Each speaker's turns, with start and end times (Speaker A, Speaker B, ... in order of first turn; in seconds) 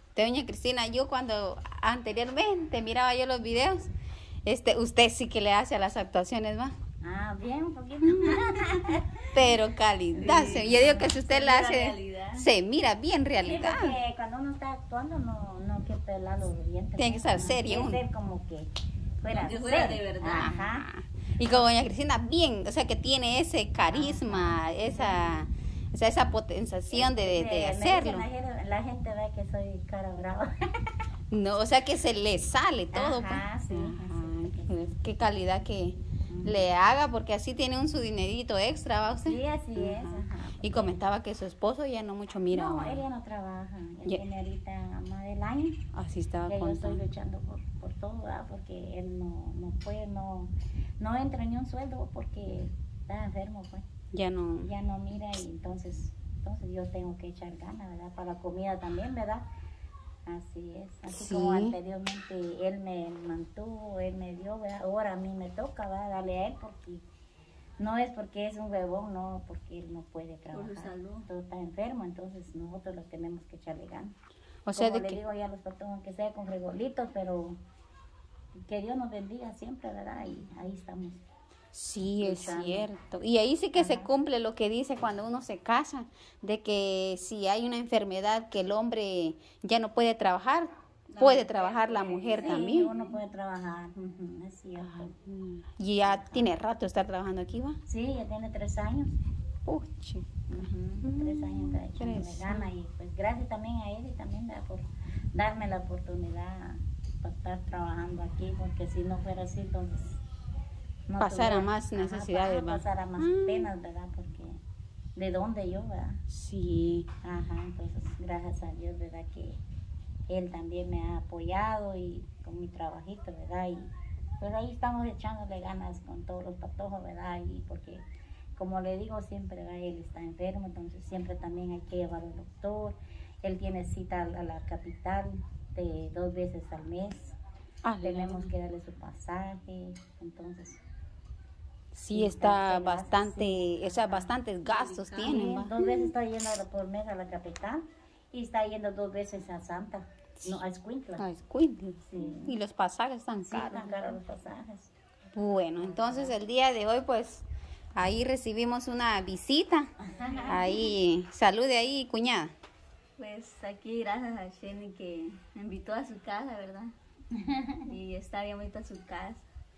Speaker A: 0.1-3.9, 4.5-6.8, 8.1-8.6, 9.3-14.0, 17.0-18.0, 20.4-28.2, 31.3-43.0, 45.9-47.0, 54.1-54.7, 61.1-61.8, 74.7-75.2, 81.7-92.9, 94.8-97.8, 99.7-102.7, 111.2-113.7, 116.3-117.1, 137.8-138.5, 141.9-145.8, 151.2-154.2, 155.3-157.4, 158.0-159.9, 160.5-162.5
Speaker B: 7.0-9.3, 13.4-18.7, 19.2-20.9, 23.9-25.4, 26.9-30.5, 32.9-34.9, 36.3-36.7, 39.2-41.0, 42.5-45.8, 46.5-53.9, 54.6-59.5, 60.3-67.0, 67.8-74.2, 74.7-77.6, 78.6-81.2, 82.2-82.9, 83.8-84.1, 92.4-95.2, 96.0-96.5, 97.9-99.2, 100.5-110.2, 111.1-114.6, 115.2-116.2, 117.2-119.6, 120.3-128.1, 128.6-137.3, 138.0-140.8, 142.1-144.3, 145.2-151.3, 152.0-152.6, 153.4-154.9, 155.8-156.4, 160.1-160.7, 167.3-167.9
Speaker C: 10.1-12.5, 19.3-20.6, 70.5-71.3, 91.1-93.2, 144.7-145.5, 160.3-160.6, 163.2-166.9, 167.9-169.4